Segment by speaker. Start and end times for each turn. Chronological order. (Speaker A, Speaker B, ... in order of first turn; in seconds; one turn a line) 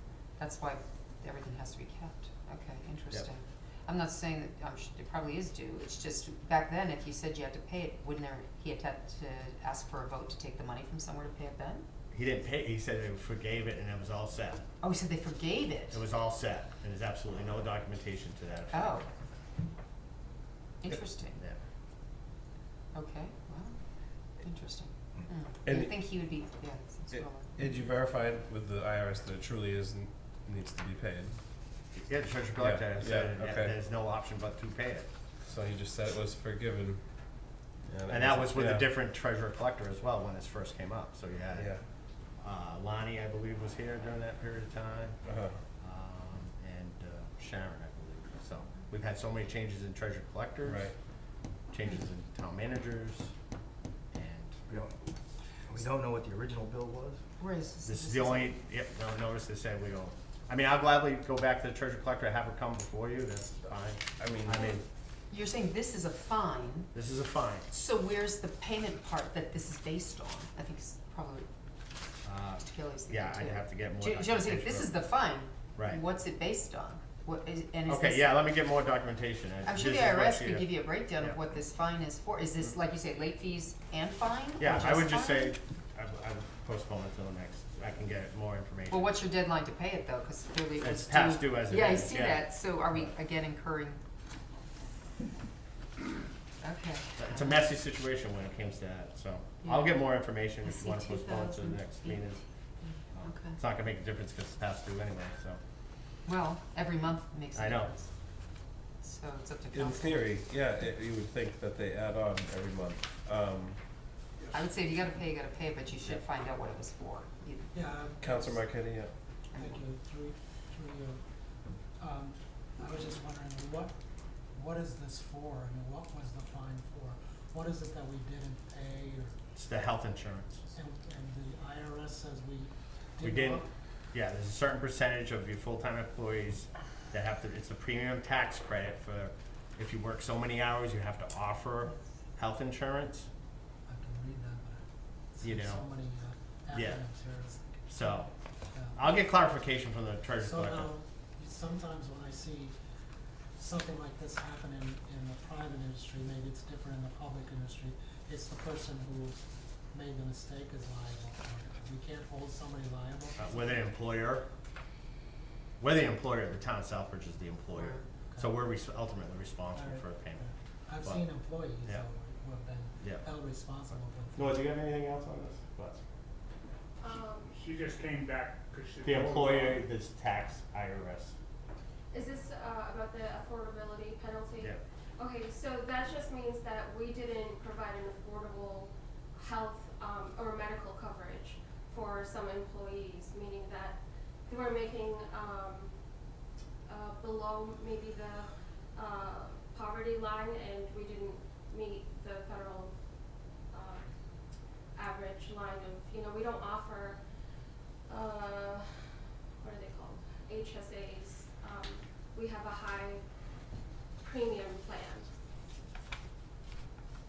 Speaker A: 0.4-11.8
Speaker B: 12.1-14.6
Speaker A: 14.8-16.0
Speaker B: 15.9-19.0
Speaker A: 18.7-19.1
Speaker A: 20.8-21.4
Speaker B: 20.9-21.6
Speaker A: 22.9-23.8
Speaker A: 24.4-27.6
Speaker C: 25.6-26.2
Speaker C: 27.1-31.4
Speaker B: 31.9-35.1
Speaker C: 32.5-33.7
Speaker C: 35.5-37.0
Speaker C: 37.9-38.9
Speaker B: 38.1-41.7
Speaker C: 41.5-41.8
Speaker B: 42.4-45.2
Speaker C: 45.2-45.6
Speaker B: 45.8-50.9
Speaker C: 50.6-50.9
Speaker B: 51.7-53.3
Speaker B: 54.1-54.5
Speaker D: 54.7-55.0
Speaker D: 55.6-57.2
Speaker A: 57.4-58.5
Speaker B: 57.9-64.8
Speaker C: 64.2-64.8
Speaker A: 65.3-66.9
Speaker B: 66.9-67.7
Speaker A: 67.7-71.5
Speaker B: 72.2-75.1
Speaker A: 72.6-78.4
Speaker B: 77.9-80.7
Speaker A: 79.6-85.5
Speaker B: 84.6-89.1
Speaker A: 88.9-94.0
Speaker B: 90.8-93.1
Speaker A: 96.6-97.7
Speaker B: 97.2-102.4
Speaker A: 99.6-102.2
Speaker B: 103.1-105.6
Speaker A: 103.2-103.6
Speaker A: 106.2-108.1
Speaker B: 107.5-107.9
Speaker A: 109.0-110.3
Speaker C: 109.7-113.8
Speaker A: 114.5-117.8
Speaker E: 117.7-118.6
Speaker C: 118.2-119.1
Speaker A: 119.5-119.8
Speaker E: 119.5-121.2
Speaker E: 122.0-123.9
Speaker E: 124.5-129.3
Speaker B: 129.6-130.6
Speaker E: 130.7-133.7
Speaker B: 133.2-143.3
Speaker E: 143.9-144.8
Speaker E: 145.3-149.1
Speaker B: 145.4-145.8
Speaker B: 146.7-147.0
Speaker B: 147.9-148.3
Speaker B: 148.9-150.9
Speaker E: 150.3-152.7
Speaker E: 153.6-163.8
Speaker B: 163.4-164.5
Speaker B: 165.8-170.5
Speaker A: 167.8-168.0
Speaker E: 168.3-168.6
Speaker E: 169.7-174.6
Speaker B: 174.4-176.0
Speaker F: 177.0-177.5
Speaker G: 177.5-179.9
Speaker B: 179.0-181.4
Speaker F: 182.1-195.9
Speaker F: 196.9-202.9
Speaker F: 203.7-204.1
Speaker F: 204.9-207.2
Speaker F: 208.1-213.2
Speaker F: 214.2-215.3